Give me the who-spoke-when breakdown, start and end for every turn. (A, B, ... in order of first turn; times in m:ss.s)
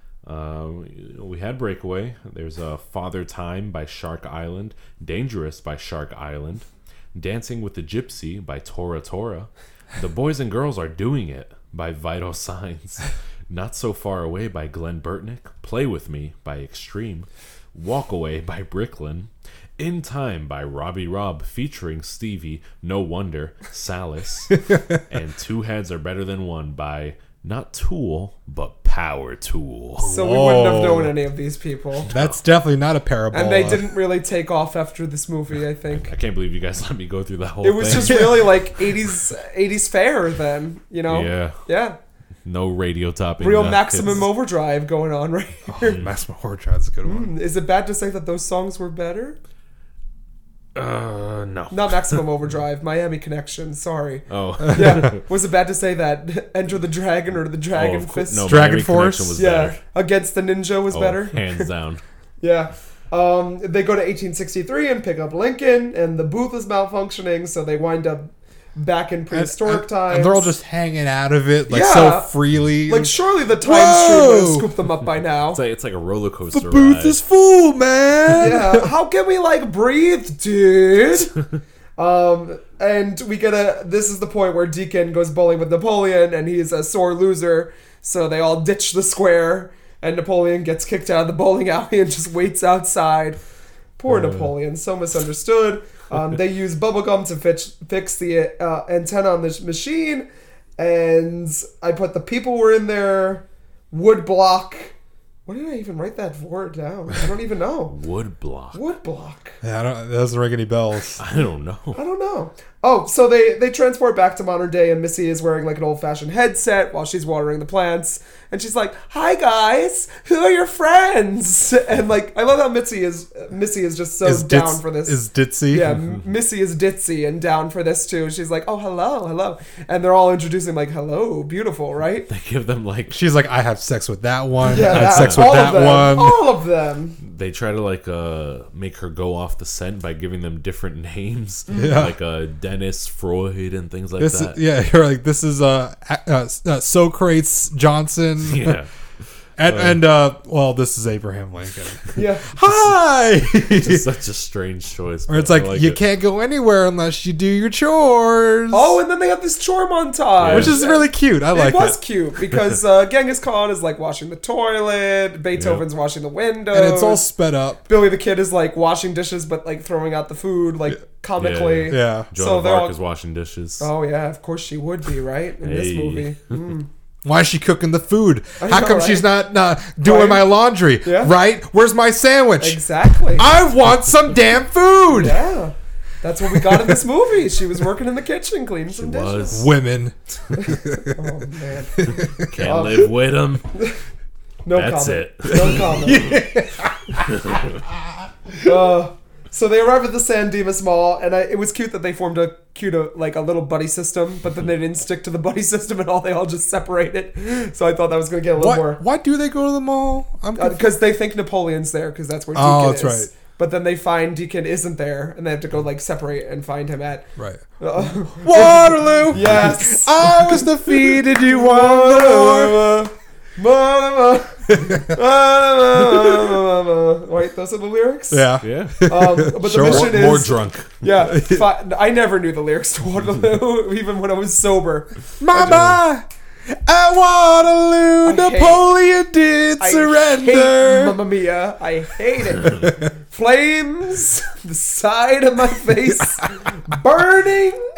0:00.2-0:30.1 A
0:24.6-0:25.0 B
0:30.0-0:31.1 B
0:30.0-0:32.1 C
0:32.0-0:32.4 A
0:32.1-0:34.0 B
0:33.3-0:36.1 C
0:36.0-0:38.5 A
0:37.6-0:42.0 C
0:37.9-0:38.4 B
0:41.1-0:41.6 A
0:42.4-0:44.3 A
0:43.4-0:46.0 C
0:45.7-0:47.3 B
0:47.0-0:49.4 C
0:50.7-0:52.2 A
0:51.7-0:58.6 C
0:54.3-0:55.2 A
0:57.7-0:59.8 A
0:58.4-0:59.4 B
0:59.4-1:01.7 C
1:00.9-1:02.0 A
1:02.4-1:10.5 C
1:09.3-1:14.7 B
1:11.7-1:12.3 C
1:12.9-1:15.6 C
1:15.5-1:17.2 A
1:16.5-1:18.9 B
1:18.3-1:21.3 C
1:22.0-1:33.4 C
1:34.0-1:40.2 C
1:34.1-1:34.5 A
1:40.8-1:44.9 C
1:45.4-1:48.0 C
1:47.9-1:48.8 A
1:48.7-1:49.6 C
1:49.6-1:51.2 B
1:51.2-1:52.0 A
1:51.9-2:12.3 C
2:04.2-2:06.0 B
2:12.3-2:13.2 A
2:13.1-2:16.4 B
2:14.6-2:17.2 C
2:14.7-2:15.6 A
2:17.2-2:24.6 A
2:21.7-2:22.1 C
2:21.7-2:22.1 B
2:24.2-2:28.8 B
2:28.4-2:28.9 A
2:29.6-2:34.0 B
2:29.6-2:30.0 A
2:32.1-2:32.5 C
2:33.6-2:36.0 A
2:35.3-2:39.0 B
2:38.7-2:47.3 C
2:40.4-2:40.8 A
2:40.5-2:42.0 B
2:45.6-2:45.8 A
2:46.7-2:47.8 B
2:47.9-2:52.9 C
2:51.4-2:53.9 A
2:51.9-2:52.3 B
2:53.8-2:56.9 C
2:55.6-2:56.4 A
2:57.2-3:05.4 B
2:58.6-2:59.3 C
3:00.0-3:01.3 C
3:02.6-3:03.5 C
3:05.1-3:09.6 C
3:06.5-3:07.0 B
3:08.9-3:09.7 A
3:09.5-3:11.3 B
3:10.5-3:13.1 C
3:12.0-3:12.5 B
3:12.4-3:13.6 A
3:14.6-3:16.4 C
3:14.7-3:16.4 A
3:15.5-3:18.1 B
3:17.3-3:17.8 A
3:18.6-3:29.0 C
3:28.6-3:30.8 B
3:30.6-3:37.3 C
3:32.5-3:33.3 B
3:37.4-3:37.6 B
3:37.8-3:55.1 C
3:38.4-3:43.0 B
3:44.8-3:45.1 B
3:48.3-3:50.5 B
3:48.6-3:51.0 A
3:51.3-3:51.6 B
3:55.4-4:01.2 B
3:55.6-3:55.9 A
3:58.2-3:58.8 C
3:59.8-4:07.8 C
4:02.6-4:03.0 B